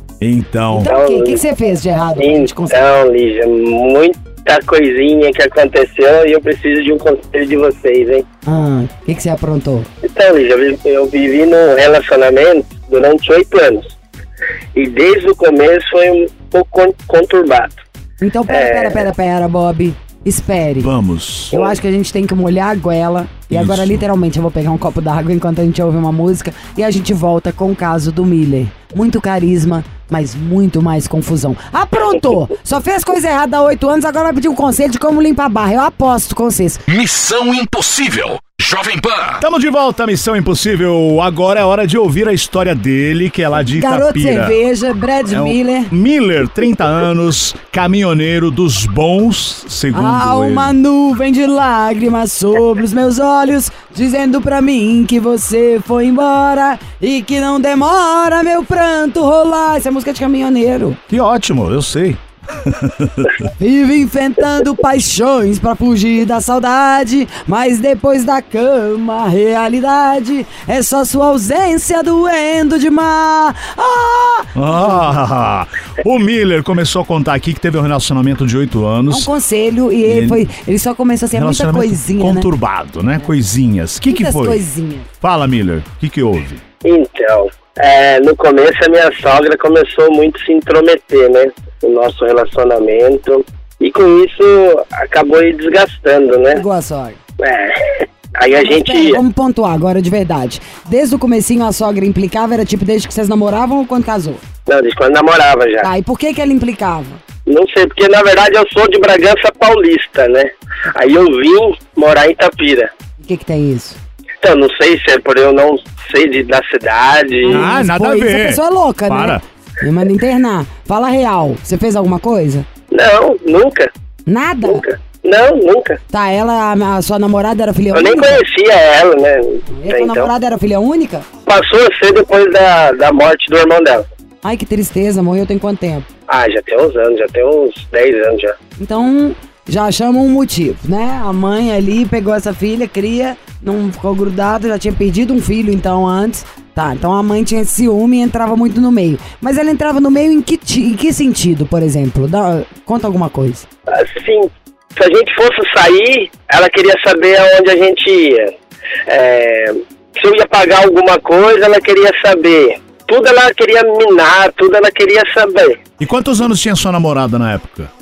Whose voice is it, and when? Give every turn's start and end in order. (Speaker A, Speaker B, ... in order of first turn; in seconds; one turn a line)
Speaker A: 0.2-0.9
Speaker B: 0.7-2.8
Speaker C: 0.8-1.4
Speaker C: 2.2-8.2
Speaker B: 8.4-9.9
Speaker C: 10.0-13.9
Speaker C: 14.8-17.8
Speaker B: 18.2-20.9
Speaker C: 18.5-19.1
Speaker A: 20.8-21.6
Speaker B: 21.5-36.8
Speaker A: 23.5-24.0
Speaker D: 36.9-39.4
Speaker A: 39.4-44.5
Speaker B: 43.7-45.9
Speaker A: 45.3-50.8
Speaker B: 49.9-61.0
Speaker A: 61.1-63.3
Speaker B: 63.6-75.0
Speaker A: 74.5-79.3
Speaker B: 79.1-82.5
Speaker A: 80.0-80.5
Speaker A: 81.3-84.6
Speaker B: 84.1-85.1
Speaker A: 85.2-86.6
Speaker C: 86.8-96.6
Speaker B: 96.5-97.2
Speaker C: 97.4-99.2
Speaker B: 98.6-104.4
Speaker C: 104.7-105.9
Speaker B: 105.8-107.2
Speaker C: 107.5-112.9
Speaker B: 113.2-114.0
Speaker C: 114.4-117.6
Speaker B: 117.4-122.7
Speaker A: 117.5-119.4
Speaker C: 122.9-123.9
Speaker B: 124.3-124.8
Speaker C: 124.7-126.0
Speaker B: 126.1-128.4
Speaker C: 127.9-130.3
Speaker B: 129.7-131.2
Speaker C: 131.5-134.1
Speaker B: 134.4-136.1
Speaker C: 136.3-138.5
Speaker B: 138.8-153.6
Speaker C: 153.9-158.5
Speaker C: 159.1-165.8
Speaker A: 166.0-167.9